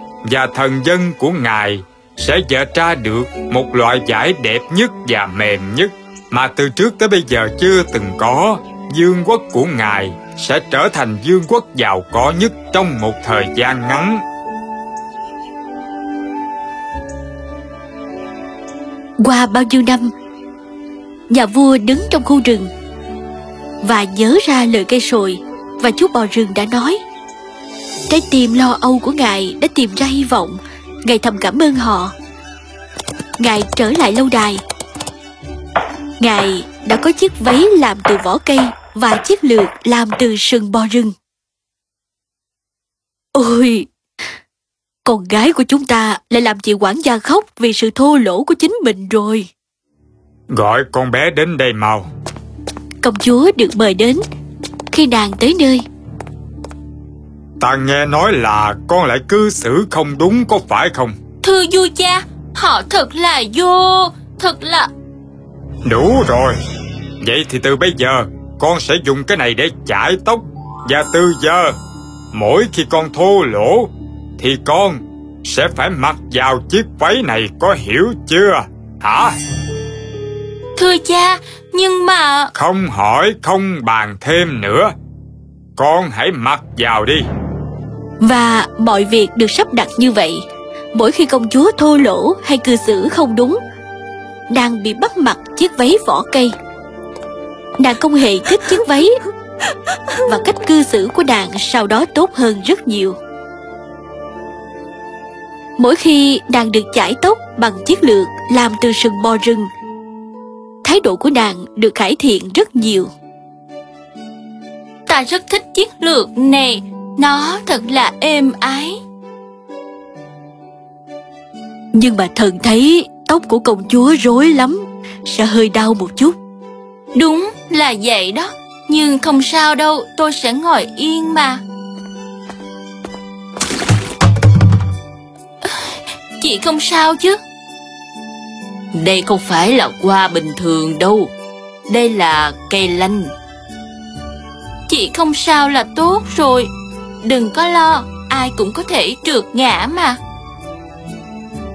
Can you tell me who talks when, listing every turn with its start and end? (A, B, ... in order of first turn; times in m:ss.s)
0:00.2-0:14.2 A
0:19.2-0:20.1 B
0:21.3-0:22.7 B
0:23.8-0:27.0 B
0:28.1-0:32.1 B
0:33.4-0:34.6 B
0:36.2-0:41.1 B
0:43.3-0:43.9 B
0:45.0-0:49.5 B
0:50.5-0:52.0 A
0:53.0-0:54.2 B
0:54.9-0:55.8 B
0:57.6-1:01.1 A
1:01.4-1:04.9 C
1:05.8-1:06.6 A
1:07.2-1:11.8 A
1:12.3-1:19.4 A
1:20.8-1:22.5 C
1:22.5-1:24.9 A
1:25.8-1:27.2 A
1:28.2-1:33.6 B
1:34.5-1:36.5 B
1:37.8-1:39.1 B
1:40.2-1:43.2 B
1:45.8-1:49.7 B
1:50.8-1:53.1 B
1:55.1-1:59.0 C
2:01.9-2:06.3 B
2:07.1-2:11.6 C
2:15.6-2:17.4 C
2:18.9-2:21.3 C
2:21.9-2:23.3 C
2:24.9-2:26.7 C
2:27.2-2:30.2 C